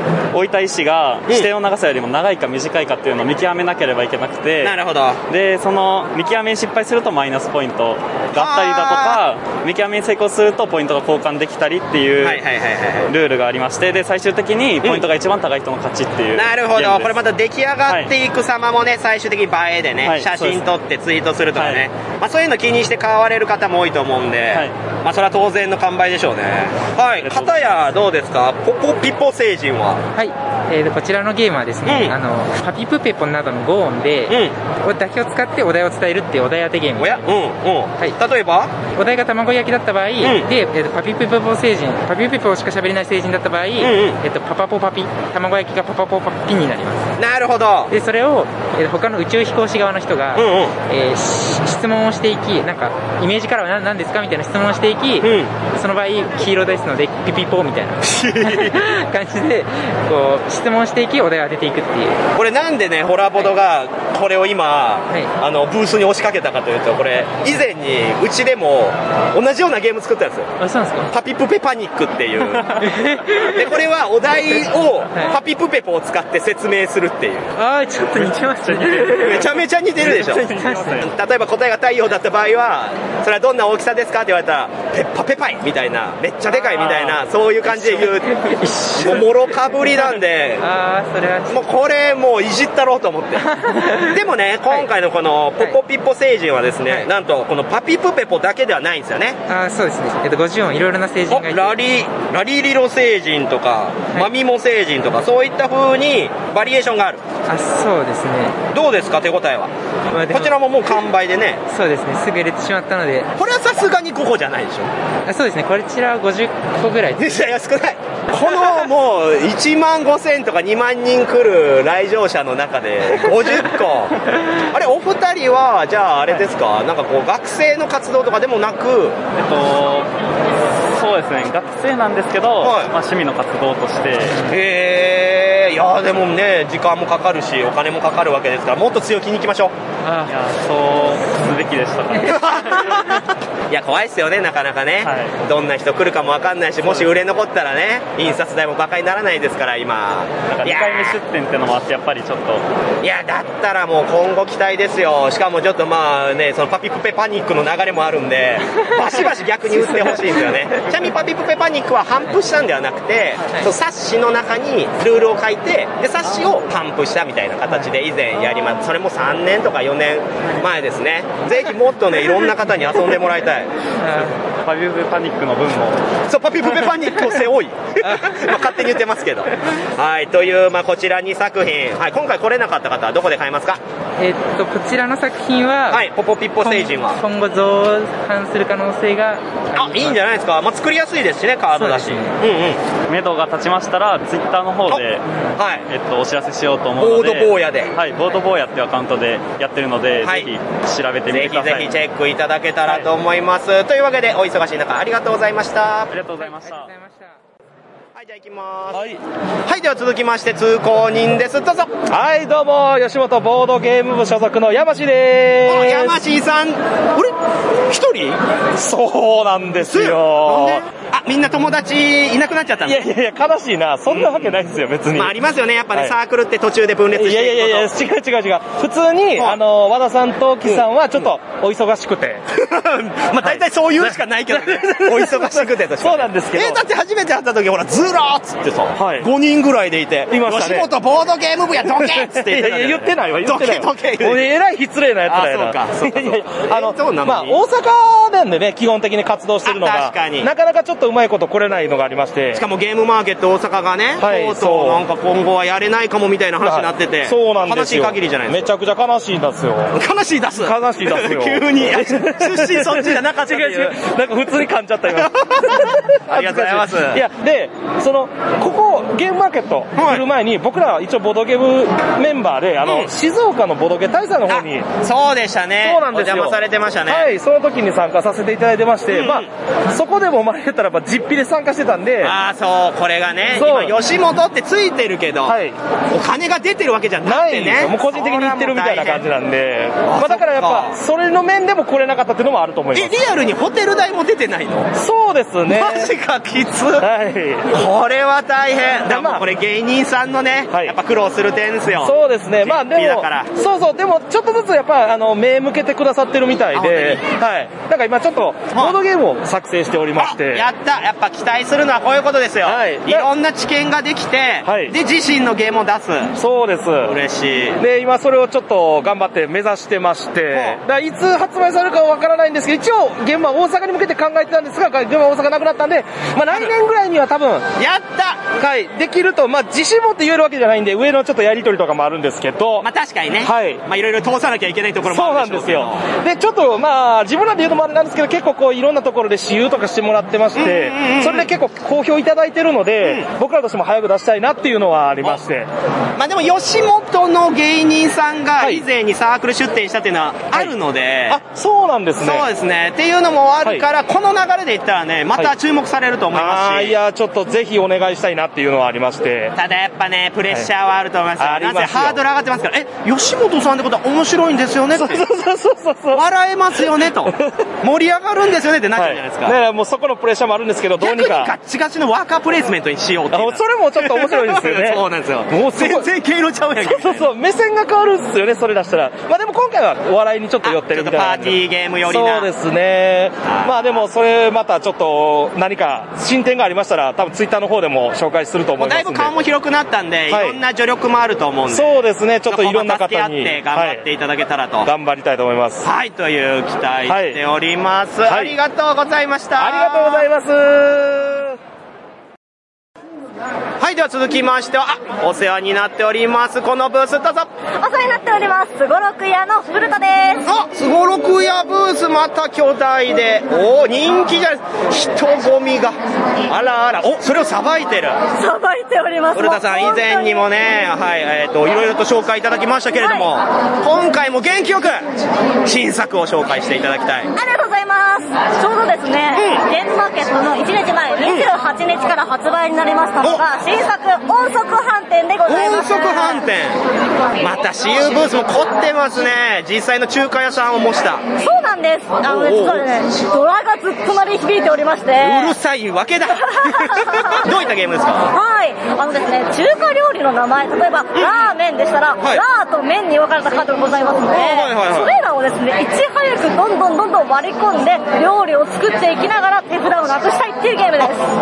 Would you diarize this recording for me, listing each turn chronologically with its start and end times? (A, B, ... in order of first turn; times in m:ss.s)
0:00.3-0:04.8 A
0:04.6-0:05.2 B
0:05.3-0:12.4 A
0:08.4-0:09.2 B
0:12.2-0:13.1 B
0:13.1-0:17.2 A
0:14.8-0:15.1 B
0:16.3-0:30.0 B
0:17.9-0:18.1 A
0:20.0-0:20.6 A
0:21.6-0:21.9 A
0:27.2-0:27.9 A
0:30.2-0:37.2 C
0:31.8-0:32.2 B
0:34.3-0:34.6 B
0:37.0-0:38.7 B
0:39.0-0:47.1 C
0:40.2-0:40.5 B
0:43.8-0:44.2 B
0:47.2-0:47.9 B
0:47.9-1:02.2 C
0:50.4-0:50.7 B
0:55.2-0:55.5 B
0:58.0-0:58.8 B
1:02.4-1:10.5 B
1:10.6-1:11.1 C
1:11.1-1:12.6 B
1:12.8-1:13.6 C
1:13.4-1:17.5 B
1:17.6-1:19.4 C
1:18.2-1:19.4 A
1:19.1-1:28.3 B
1:20.0-1:21.1 A
1:20.5-1:21.0 C
1:26.6-1:26.9 C
1:26.7-1:27.2 A
1:27.7-1:29.3 C
1:29.0-1:30.6 B
1:30.6-1:31.7 C
1:31.5-1:33.4 B
1:33.6-1:34.0 C
1:34.1-1:39.4 B
1:39.5-1:41.8 C
1:41.3-1:47.2 B
1:47.5-1:48.6 C
1:48.7-1:49.7 B
1:50.1-1:50.6 C
1:50.3-1:51.6 B
1:51.7-1:53.3 C
1:53.4-1:54.9 B
1:55.3-1:57.3 C
1:57.2-2:04.1 B
2:04.7-2:09.2 B
2:09.4-2:10.1 A
2:10.9-2:14.4 A
2:12.6-2:12.9 B
2:14.5-2:19.7 B
2:20.1-2:23.0 A
2:22.2-2:31.2 B
2:25.0-2:25.3 A
2:26.8-2:27.1 A
2:30.5-2:32.6 A
2:33.0-2:53.7 B
2:39.8-2:40.2 C
2:54.0-2:54.3 C
2:54.6-2:56.0 A
2:56.3-3:03.8 B
3:04.2-3:06.1 C
3:05.9-3:07.2 B
3:06.6-3:10.2 C
3:09.8-3:12.8 B
3:11.8-3:12.2 C
3:13.1-3:15.3 A
3:15.6-3:15.8 B
3:15.9-3:21.9 A
3:17.0-3:17.9 B
3:20.2-3:20.5 B
3:21.3-3:26.1 B
3:26.1-3:26.9 A
3:26.4-3:27.3 C
3:28.2-3:29.0 B
3:28.9-3:29.2 D
3:29.7-3:32.0 B
3:32.1-3:36.2 D
3:35.7-3:37.3 B
3:37.9-3:38.4 B
3:38.8-3:40.8 D
3:39.8-3:43.0 B
3:42.8-3:45.3 D
3:44.1-3:44.5 B
3:45.1-3:48.0 B
3:47.1-3:52.4 D
3:52.6-4:04.5 B
3:53.4-3:56.8 D
3:59.0-3:59.3 D
4:00.3-4:00.9 D
4:02.0-4:12.6 D
4:05.3-4:07.6 B
4:09.6-4:10.5 B
4:12.6-4:18.7 B
4:14.2-4:15.0 D
4:16.6-4:19.9 D
4:20.0-4:24.0 B
4:20.6-4:34.9 D
4:25.1-4:27.2 B
4:30.0-4:30.2 B
4:34.5-4:37.3 B
4:35.8-4:42.3 D
4:39.1-4:39.5 B
4:42.2-4:45.6 B
4:43.6-4:43.9 D
4:45.5-4:45.8 D
4:46.1-4:49.2 B
4:47.2-4:53.2 D
4:50.0-4:51.0 B
4:52.9-4:54.9 B
4:55.0-4:56.1 D
4:55.7-4:57.1 B
4:57.0-4:57.7 D
4:57.7-5:03.5 B
4:59.1-4:59.4 D
5:02.0-5:10.7 D
5:06.7-5:07.2 B
5:10.2-5:16.3 B
5:12.6-5:13.3 D
5:14.6-5:15.0 D
5:16.4-5:17.1 D
5:17.0-5:17.8 B
5:17.8-5:27.7 D
5:20.5-5:20.8 B
5:27.8-5:28.6 B
5:28.5-5:32.9 D
5:32.8-5:36.0 B
5:33.4-5:33.8 D
5:35.1-5:45.7 D
5:40.6-5:41.5 B
5:43.0-5:43.3 B
5:46.2-5:51.4 B
5:51.3-5:52.5 D
5:52.2-5:57.0 B
5:56.3-5:59.5 D
5:59.6-6:05.2 B
6:01.4-6:02.2 D
6:05.0-6:06.2 D
6:06.1-6:09.6 B
6:09.0-6:11.5 D
6:11.0-6:17.3 B
6:13.3-6:16.1 D
6:16.8-6:29.3 D
6:20.6-6:22.5 B
6:23.5-6:24.0 B
6:28.8-6:34.9 B
6:30.3-6:30.6 D
6:31.7-6:34.0 D
6:34.8-6:35.9 D
6:35.8-6:40.2 B
6:37.1-6:37.4 D
6:38.2-6:38.6 D
6:39.6-6:41.6 D
6:43.8-6:47.5 B
6:47.8-6:50.4 E
6:50.5-6:56.0 B
6:56.5-6:58.2 B
6:58.4-7:00.4 E
6:59.4-7:05.1 B
7:03.0-7:03.3 E
7:05.6-7:07.3 B
7:07.4-7:16.4 E
7:09.4-7:09.6 B
7:15.5-7:16.8 B
7:17.4-7:21.3 B
7:21.4-7:25.6 E
7:22.2-7:22.8 B
7:25.2-7:28.3 B
7:26.5-7:27.4 E
7:28.3-7:41.2 E
7:34.3-7:35.1 B